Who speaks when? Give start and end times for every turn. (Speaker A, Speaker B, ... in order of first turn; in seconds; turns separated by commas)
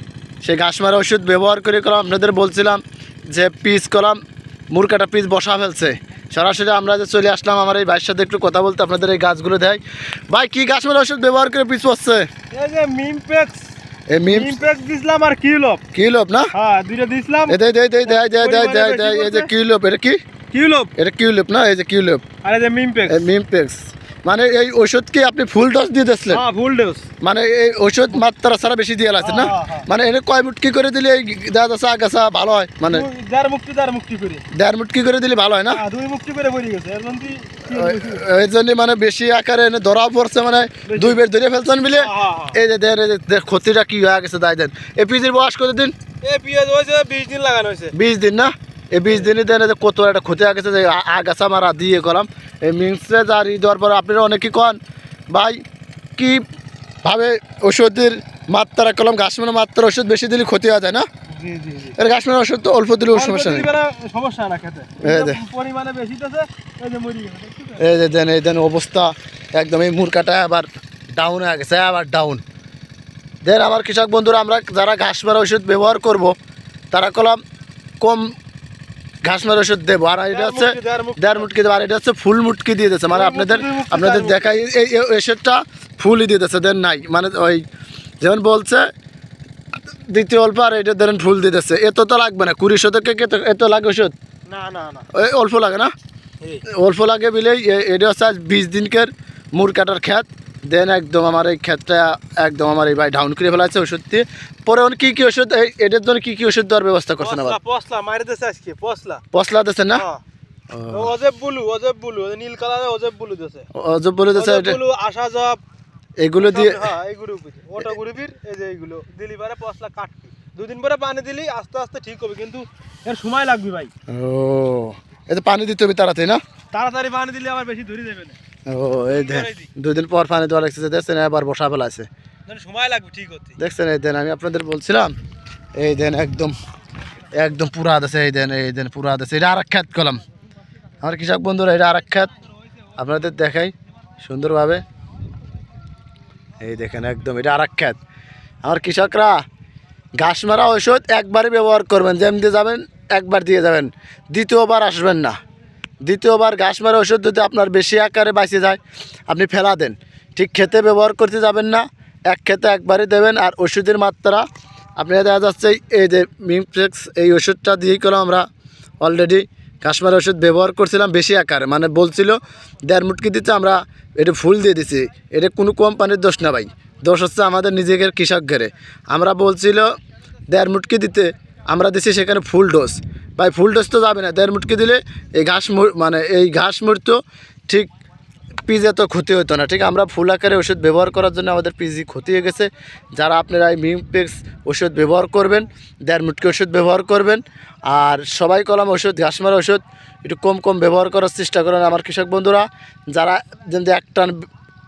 Speaker A: 0.4-4.2, Speaker A: 4.7-12.3, Speaker B: 12.5-13.7, Speaker A: 14.1-14.6, Speaker B: 14.2-15.8, Speaker A: 15.9-16.5, Speaker B: 16.5-19.5, Speaker A: 17.5-20.2, Speaker B: 20.5-20.9, Speaker A: 20.9-22.2, Speaker B: 22.4-23.3, Speaker A: 23.1-26.4, Speaker B: 26.3-27.1, Speaker A: 27.2-33.1, Speaker B: 29.2-29.9, Speaker B: 32.9-34.5, Speaker A: 34.5-35.8, Speaker B: 35.7-38.3, Speaker A: 37.7-45.9, Speaker B: 40.9-41.2, Speaker B: 41.9-42.6, Speaker B: 46.2-47.9, Speaker A: 47.9-54.8, Speaker A: 55.3-55.6, Speaker A: 56.2-56.4, Speaker A: 57.0-61.0, Speaker B: 61.3-62.0, Speaker A: 62.0-63.7, Speaker B: 63.1-67.9, Speaker A: 65.0-65.4, Speaker A: 67.8-72.4, Speaker A: 73.4-76.3, Speaker A: 76.9-77.4, Speaker A: 78.0-78.3, Speaker A: 79.2-87.7, Speaker B: 80.3-81.5, Speaker B: 83.1-84.6, Speaker A: 88.2-88.9, Speaker A: 89.9-94.1, Speaker B: 94.5-95.1, Speaker A: 95.1-95.9, Speaker A: 96.6-107.6, Speaker B: 107.2-109.2, Speaker A: 109.3-110.0, Speaker B: 109.9-110.2, Speaker A: 110.7-111.1, Speaker B: 110.9-113.6, Speaker A: 113.7-114.8, Speaker B: 114.3-115.6, Speaker A: 116.2-116.9, Speaker B: 116.3-123.9, Speaker A: 124.1-126.4, Speaker B: 126.7-128.4, Speaker A: 128.7-132.1, Speaker B: 129.1-129.7, Speaker B: 132.5-133.6, Speaker A: 133.6-135.1, Speaker A: 135.8-136.5, Speaker A: 137.3-140.2, Speaker A: 141.0-142.3, Speaker A: 143.0-144.8, Speaker A: 146.6-148.0, Speaker A: 148.6-149.4, Speaker A: 150.2-155.3, Speaker A: 156.0-164.4, Speaker A: 165.0-168.4, Speaker A: 169.0-179.9, Speaker A: 180.5-187.9, Speaker A: 188.7-204.4